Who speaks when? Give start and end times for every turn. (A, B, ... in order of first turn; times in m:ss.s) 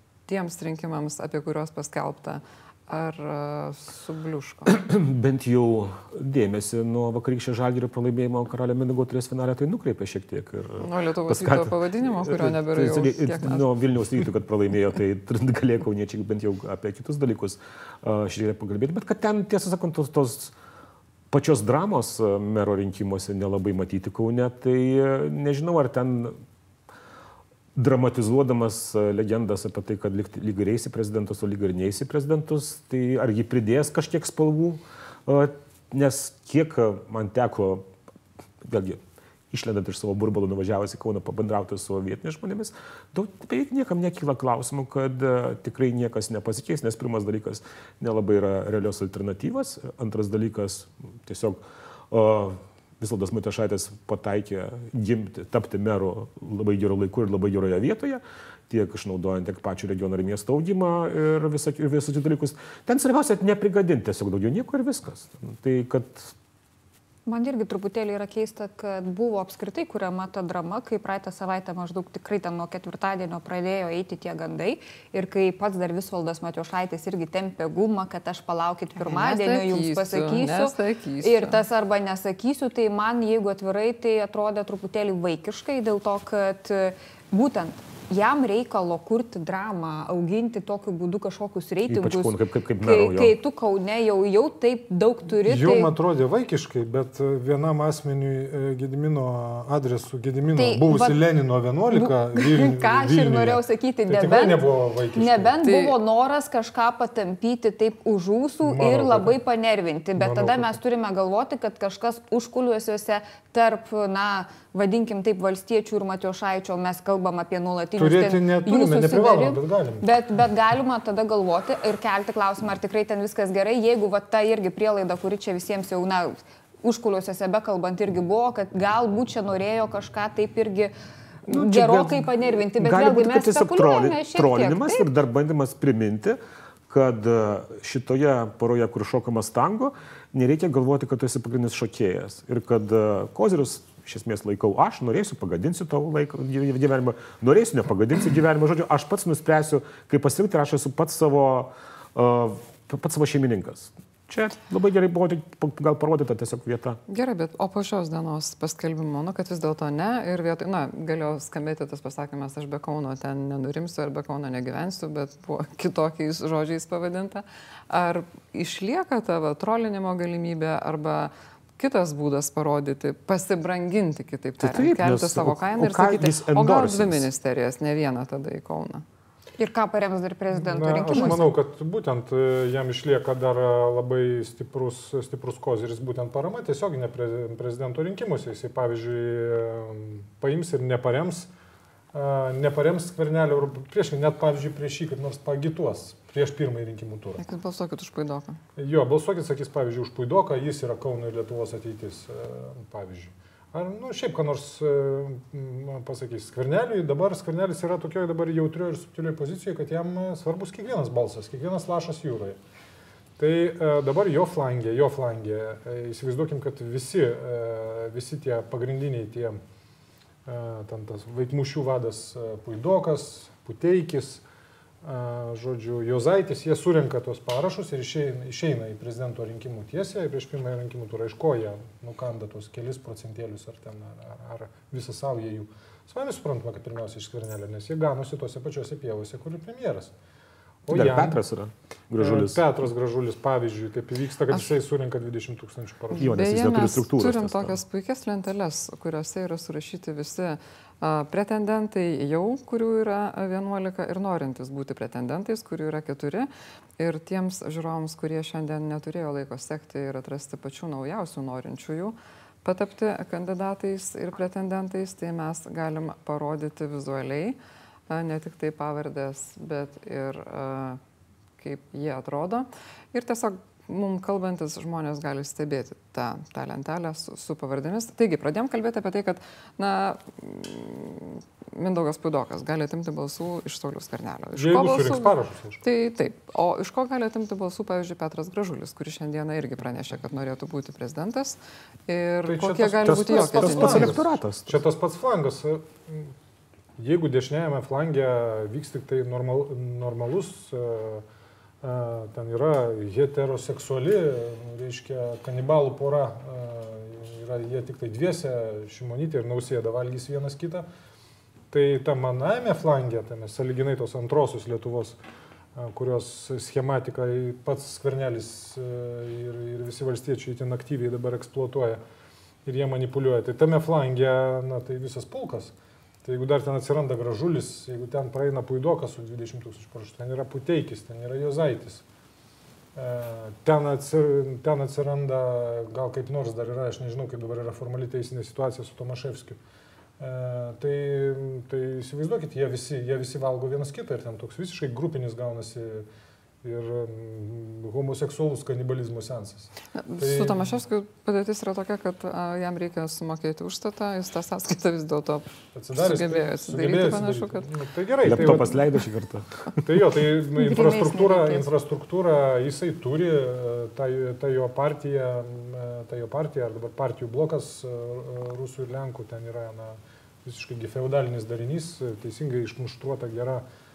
0:00.3-0:04.8 A
0:04.7-0:20.5 B
0:10.8-0:13.7 A
0:21.3-0:26.4 B
0:27.8-0:37.9 B
0:38.6-0:51.6 B
0:52.1-1:06.3 B
1:07.3-1:35.9 C
1:19.0-1:21.6 A
1:31.9-1:33.4 B
1:35.4-1:45.6 D
1:40.5-1:41.2 C
1:41.9-2:10.9 C
1:45.6-1:46.0 A
1:48.6-1:49.4 D
1:50.2-1:50.8 D
1:58.0-2:00.1 D
2:11.4-2:15.1 C
2:11.5-2:37.0 B
2:37.1-2:59.0 A
2:54.6-2:57.3 B
2:59.6-3:01.5 C
3:00.5-3:11.5 D
3:12.1-3:17.4 D
3:17.4-3:18.6 A
3:18.8-3:32.6 D
3:33.4-3:39.6 D
3:40.5-3:44.4 D
3:45.0-4:00.1 D
4:00.9-4:01.4 D
4:00.9-4:02.6 B
4:02.2-4:06.4 D
4:06.1-4:27.6 A
4:06.2-4:07.8 B
4:28.1-4:31.0 A
4:31.6-4:54.2 A
4:44.6-4:45.8 D
4:52.5-4:56.3 D
4:53.0-4:54.8 B
4:57.0-5:01.2 D
5:01.8-5:10.9 D
5:11.7-5:15.2 D
5:15.8-5:22.0 D
5:22.6-5:32.0 D
5:33.0-5:39.6 D
5:40.2-5:46.1 D
5:46.6-5:50.7 D
5:50.0-5:57.7 A
5:55.8-5:59.0 D
5:58.2-5:59.8 B
5:59.8-6:13.6 D
6:00.6-6:01.7 C